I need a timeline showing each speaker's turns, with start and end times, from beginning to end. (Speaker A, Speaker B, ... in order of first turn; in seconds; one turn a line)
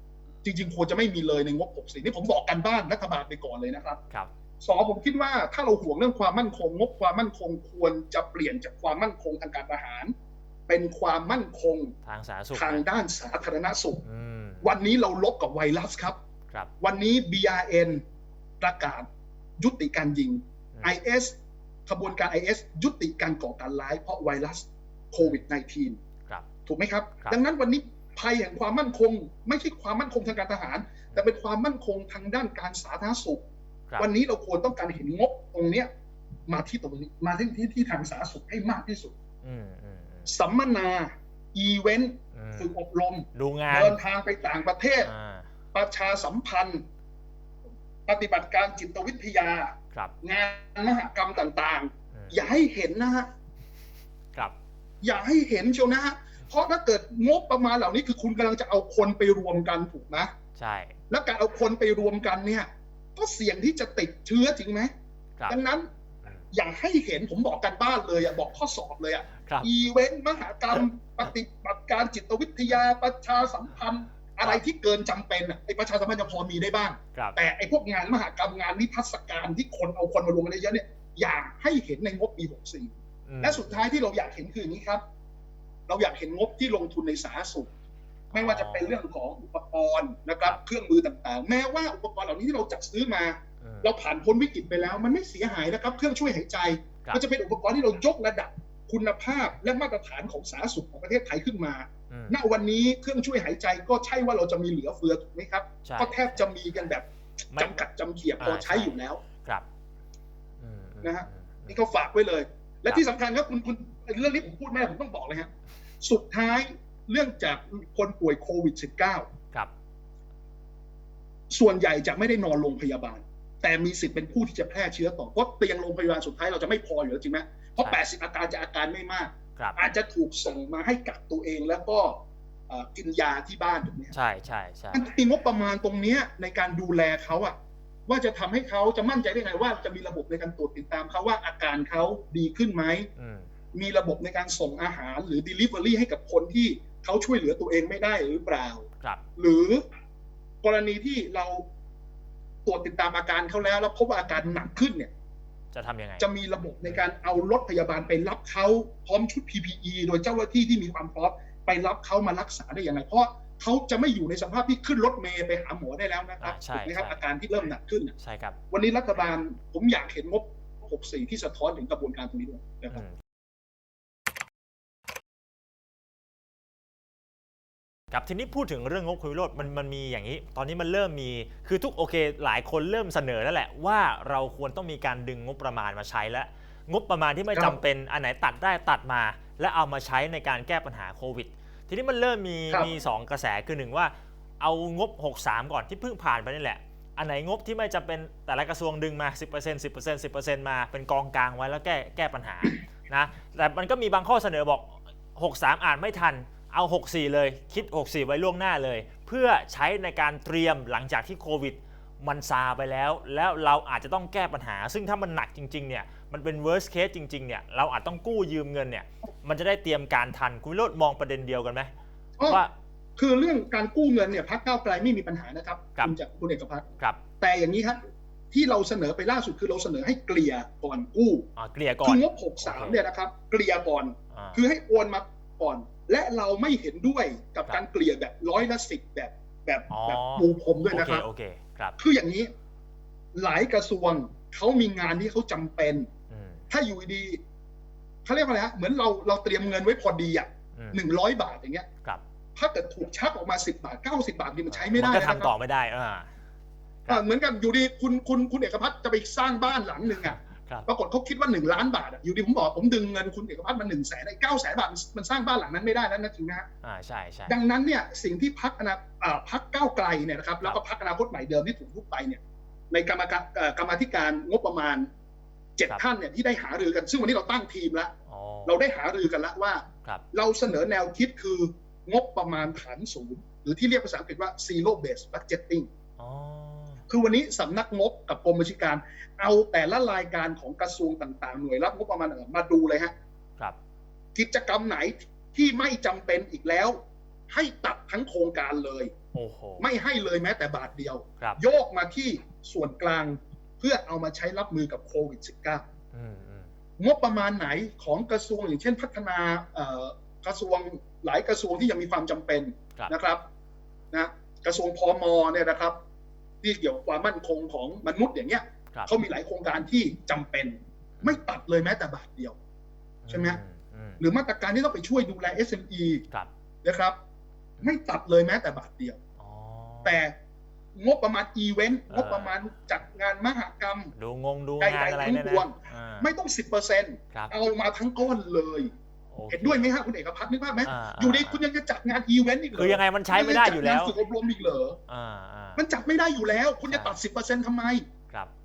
Speaker A: 0.4-4.0
Speaker A: 4.6-10.1
Speaker A: 10.7-11.9
Speaker B: 12.1-12.8
Speaker A: 12.6-14.0
Speaker B: 14.1-14.7
Speaker A: 14.6-16.2
Speaker A: 16.8-18.0
Speaker A: 18.6-19.1
Speaker A: 19.6-21.4
Speaker A: 21.9-26.0
Speaker A: 26.7-33.4
Speaker A: 34.0-35.9
Speaker A: 36.5-39.1
Speaker B: 39.4-40.3
Speaker A: 40.3-45.1
Speaker B: 42.3-42.7
Speaker B: 43.4-44.0
Speaker B: 45.0-45.5
Speaker A: 45.7-46.9
Speaker A: 48.1-53.3
Speaker A: 55.0-60.3
Speaker B: 60.5-61.0
Speaker A: 61.1-64.9
Speaker A: 65.5-65.9
Speaker A: 66.5-85.0
Speaker B: 69.4-69.7
Speaker B: 83.3-83.7
Speaker A: 85.9-87.7
Speaker B: 88.3-89.0
Speaker A: 88.3-109.2
Speaker B: 93.6-93.9
Speaker B: 102.1-102.4
Speaker B: 105.8-106.4
Speaker B: 107.5-107.8
Speaker B: 108.4-109.7
Speaker B: 110.6-111.8
Speaker A: 111.0-115.5
Speaker A: 116.0-119.3
Speaker A: 121.5-134.1
Speaker B: 129.6-129.9
Speaker B: 134.1-135.1
Speaker A: 134.9-137.6
Speaker A: 138.1-143.1
Speaker B: 143.2-143.5
Speaker A: 143.7-148.9
Speaker A: 149.4-149.8
Speaker A: 150.6-151.7
Speaker A: 152.7-155.1
Speaker B: 155.7-156.3
Speaker A: 156.2-168.1
Speaker B: 166.4-167.2
Speaker B: 168.2-168.6
Speaker A: 168.7-173.0
Speaker B: 178.1-221.9
Speaker A: 187.5-187.8
Speaker B: 222.5-222.7
Speaker A: 223.2-226.8
Speaker A: 227.4-228.0
Speaker A: 228.5-231.5
Speaker B: 231.6-233.0
Speaker A: 232.0-241.2
Speaker B: 234.3-234.6
Speaker B: 239.9-242.0
Speaker A: 242.0-242.5
Speaker A: 243.3-246.1
Speaker B: 246.3-246.6
Speaker A: 246.7-247.4
Speaker A: 248.2-251.9
Speaker B: 250.8-251.0
Speaker A: 252.6-255.5
Speaker B: 254.7-256.3
Speaker A: 257.1-266.7
Speaker B: 260.2-260.9
Speaker B: 266.8-267.6
Speaker A: 267.5-272.4
Speaker A: 272.9-275.1
Speaker A: 275.8-278.1
Speaker B: 278.3-278.8
Speaker A: 278.7-285.9
Speaker B: 286.2-287.0
Speaker A: 287.1-293.1
Speaker A: 294.4-299.1
Speaker B: 299.3-299.9
Speaker A: 299.8-305.9
Speaker B: 306.1-306.7
Speaker A: 307.0-313.4
Speaker A: 314.1-316.0
Speaker A: 316.6-322.6
Speaker B: 323.2-324.2
Speaker A: 323.3-323.6
Speaker A: 324.2-326.2
Speaker A: 326.8-327.2
Speaker A: 327.8-329.2
Speaker B: 329.4-330.2
Speaker A: 330.1-330.3
Speaker A: 330.9-334.1
Speaker B: 332.1-332.6
Speaker B: 334.1-336.3
Speaker A: 334.8-338.9
Speaker B: 339.3-339.9
Speaker A: 339.5-345.0
Speaker B: 340.8-341.6
Speaker B: 342.8-344.2
Speaker B: 345.1-345.8
Speaker A: 345.8-348.1
Speaker B: 346.9-347.2